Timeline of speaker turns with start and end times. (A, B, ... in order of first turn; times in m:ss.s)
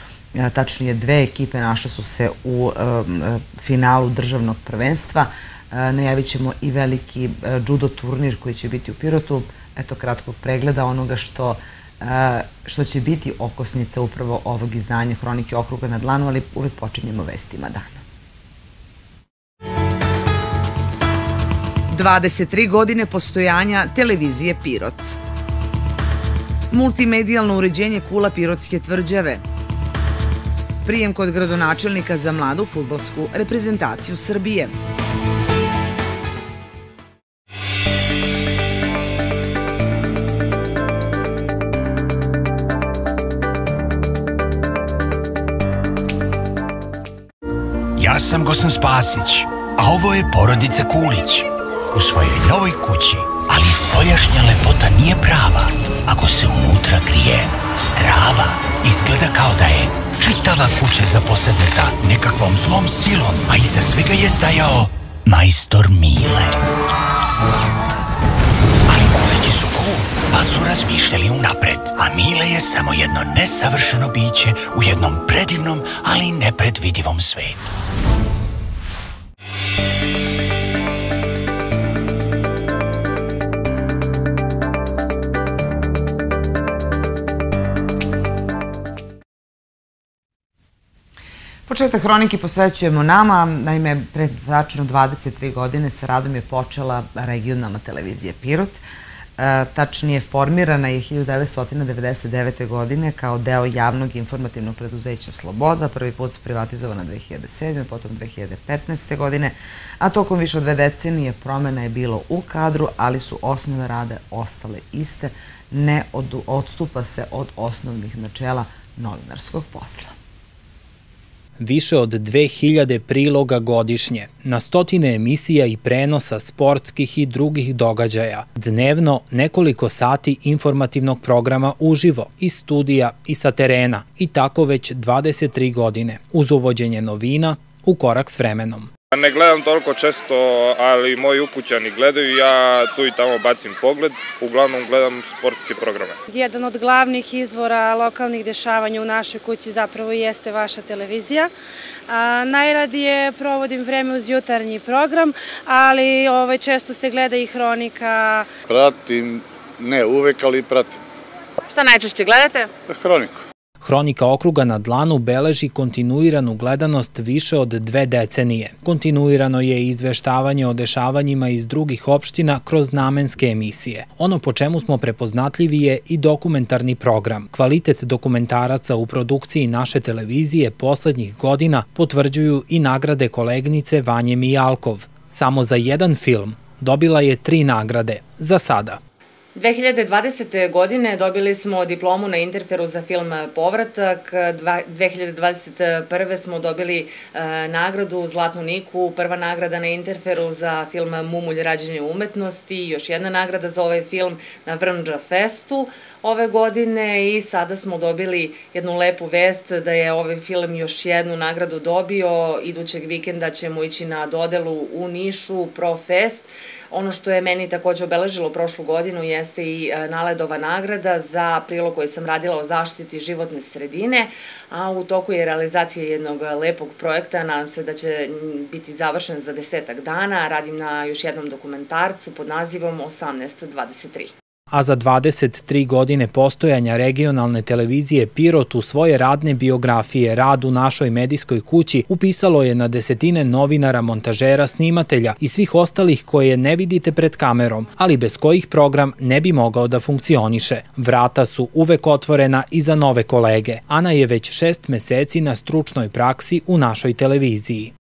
0:00.4-0:18.0 A
0:21.9-0:25.2 A
0:26.7-0:29.4 A
0:30.8-0:34.8 A
0:48.0-1:06.6 B
1:08.9-1:17.7 B
1:31.7-1:38.8 A
1:39.4-2:00.2 A
2:01.6-2:18.9 C
2:19.1-2:26.2 D
2:26.3-2:31.5 E
2:32.1-2:38.5 E
2:38.7-2:41.0 F
2:42.9-2:43.4 F
2:43.8-3:09.0 C
3:09.6-3:54.3 G
3:54.7-4:17.9 C